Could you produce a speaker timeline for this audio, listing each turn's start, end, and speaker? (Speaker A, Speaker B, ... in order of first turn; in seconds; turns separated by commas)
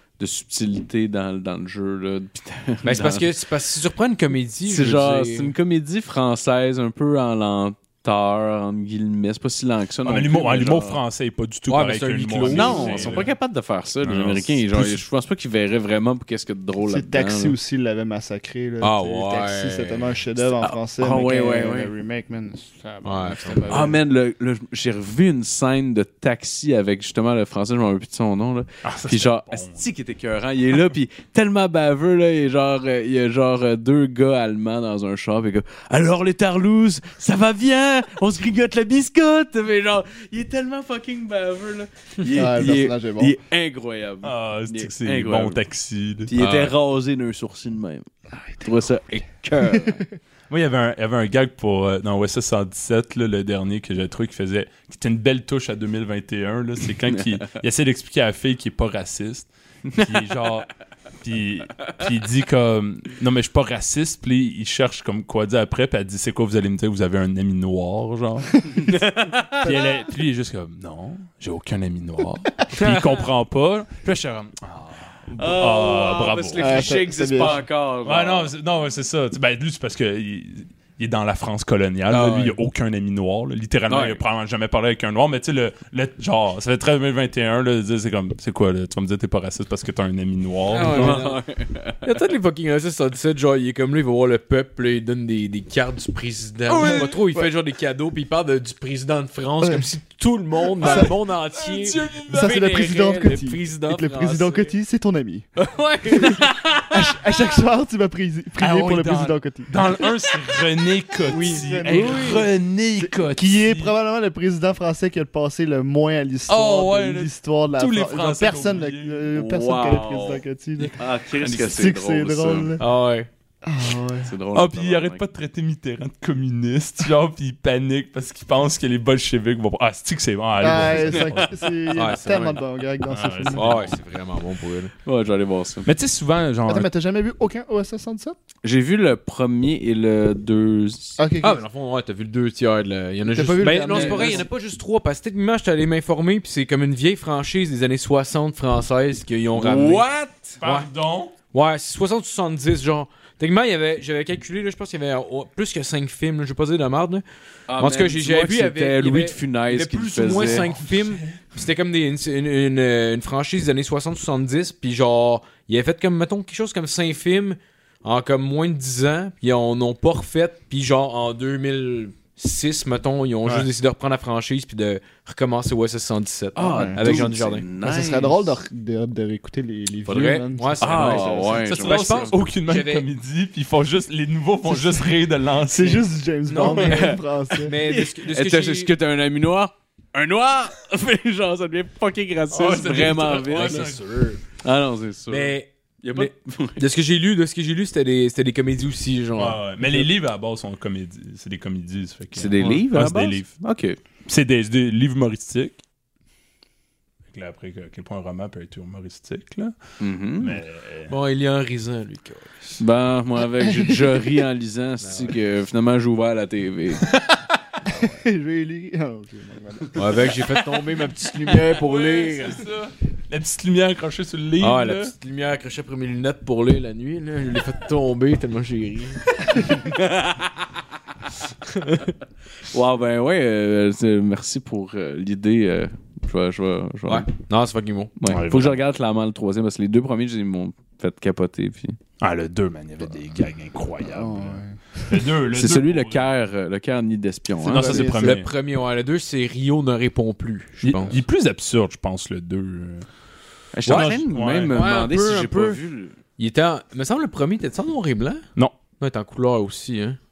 Speaker A: 0.2-3.4, Speaker B: 2.8-5.5, Speaker A: 4.7-11.0, Speaker C: 10.0-13.3, Speaker B: 11.7-13.3, Speaker A: 12.4-17.5, Speaker C: 14.0-15.0, Speaker D: 16.9-24.0, Speaker B: 18.8-20.1, Speaker A: 20.6-21.9, Speaker B: 23.0-23.9, Speaker A: 23.7-45.6, Speaker C: 28.8-29.9, Speaker D: 42.2-43.4, Speaker C: 44.2-46.7, Speaker A: 46.3-50.1, Speaker D: 49.7-50.0, Speaker C: 50.5-60.7, Speaker C: 61.2-69.0, Speaker A: 68.9-69.7, Speaker C: 69.6-76.9, Speaker A: 75.4-78.5, Speaker D: 76.6-77.6, Speaker C: 78.0-91.3, Speaker B: 82.1-82.6, Speaker A: 83.9-84.2, Speaker B: 90.7-91.4, Speaker A: 90.7-92.2, Speaker B: 92.0-104.7, Speaker C: 96.7-97.2, Speaker D: 96.7-97.5, Speaker D: 100.8-101.2, Speaker C: 100.8-102.6, Speaker D: 102.3-105.5, Speaker B: 105.5-107.1, Speaker D: 106.1-110.0, Speaker C: 108.6-113.9, Speaker B: 111.2-112.5, Speaker D: 111.5-122.8, Speaker C: 116.5-119.3, Speaker A: 119.3-122.8, Speaker B: 122.8-123.3, Speaker D: 123.6-124.3, Speaker A: 124.2-125.2, Speaker C: 124.5-131.9, Speaker D: 130.6-133.8, Speaker B: 131.9-132.6, Speaker C: 133.1-133.9, Speaker B: 133.5-134.9, Speaker A: 135.0-135.9, Speaker C: 135.8-136.9, Speaker D: 136.7-138.3, Speaker A: 138.6-141.2, Speaker D: 141.2-141.6, Speaker B: 141.4-150.9, Speaker D: 143.3-144.4, Speaker A: 143.9-144.4, Speaker A: 149.6-150.5, Speaker C: 150.6-151.3, Speaker B: 151.5-157.2, Speaker A: 157.7-160.7, Speaker B: 157.8-177.7, Speaker C: 160.3-161.4, Speaker A: 176.6-178.5, Speaker D: 176.7-177.3, Speaker D: 177.8-181.6, Speaker B: 180.1-183.1, Speaker A: 180.8-182.4, Speaker C: 181.2-186.1, Speaker D: 184.7-185.1, Speaker D: 185.6-187.7, Speaker B: 186.5-188.9, Speaker A: 186.6-193.9, Speaker C: 192.5-194.0, Speaker B: 193.4-194.4, Speaker A: 194.6-196.8, Speaker B: 195.3-200.1, Speaker C: 199.3-203.5, Speaker A: 202.3-204.0, Speaker B: 202.6-202.8, Speaker C: 204.2-205.8, Speaker C: 207.3-209.7, Speaker A: 210.0-210.6, Speaker C: 210.4-211.1, Speaker B: 211.1-212.8, Speaker A: 212.8-217.1, Speaker D: 213.7-214.1, Speaker B: 215.0-215.3, Speaker D: 217.8-220.4, Speaker B: 219.9-222.7, Speaker C: 221.6-225.1, Speaker B: 224.6-229.6, Speaker A: 229.7-230.7, Speaker B: 231.7-232.0, Speaker A: 232.7-237.3, Speaker B: 237.1-238.1, Speaker A: 238.2-242.0, Speaker C: 238.2-238.8, Speaker C: 242.2-246.3, Speaker D: 244.0-244.8, Speaker A: 245.4-248.1, Speaker C: 247.6-248.5, Speaker D: 247.7-248.4, Speaker B: 248.0-251.2, Speaker C: 250.8-253.1, Speaker A: 253.7-256.1, Speaker B: 253.8-254.2, Speaker C: 253.8-254.9, Speaker B: 254.7-255.8, Speaker B: 256.4-258.4, Speaker B: 259.0-260.2